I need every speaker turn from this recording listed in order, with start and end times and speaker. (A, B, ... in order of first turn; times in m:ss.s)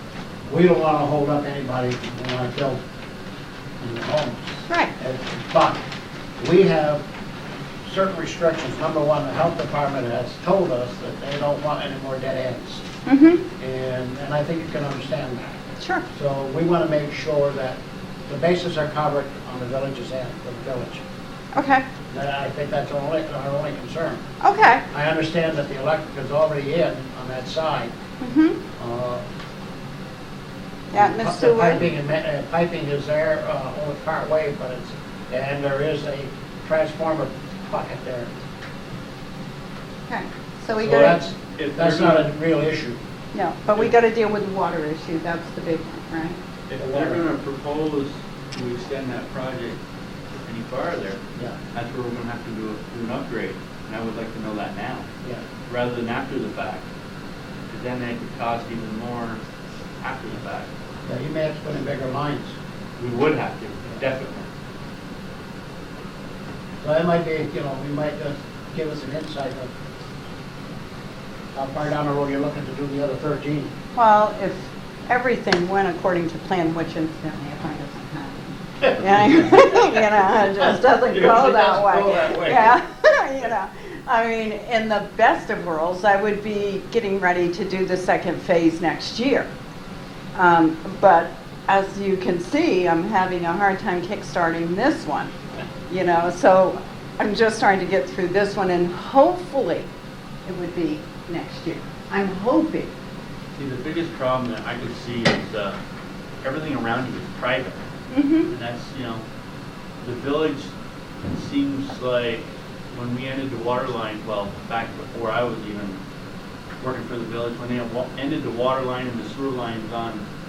0:00.4-0:02.8 A
0:03.8-0:05.8 A
0:06.4-0:07.0 A
0:07.8-0:12.8 A
0:13.0-0:13.4 B
0:13.6-0:15.6 A
0:15.8-0:16.0 B
0:16.1-0:21.0 A
0:21.5-0:21.8 B
0:22.1-0:24.2 A
0:24.4-0:24.8 B
0:24.9-0:27.9 A
0:28.2-0:28.6 B
0:28.8-0:29.2 A
0:30.9-0:31.8 B
0:30.9-0:38.3 A
0:40.1-0:41.2 B
0:40.7-0:43.0 A
0:41.5-0:42.3 C
0:43.3-0:46.4 B
0:46.7-0:49.8 C
0:46.8-0:47.2 A
0:50.4-0:51.2 C
0:51.7-0:55.1 C
0:55.7-0:56.8 C
0:57.7-0:59.4 C
1:00.0-1:00.7 C
1:01.0-1:02.6 A
1:03.0-1:04.5 C
1:06.8-1:09.7 A
1:11.5-1:13.7 A
1:13.9-1:29.5 B
1:21.1-1:22.7 C
1:30.3-1:35.3 B
1:35.9-1:39.9 B
1:40.4-1:42.9 B
1:43.6-1:45.8 C
1:46.4-1:47.8 C
1:48.1-1:48.5 B
1:48.5-1:49.2 C
1:50.0-1:50.7 C
1:51.2-1:56.0 C
1:56.8-2:00.2 C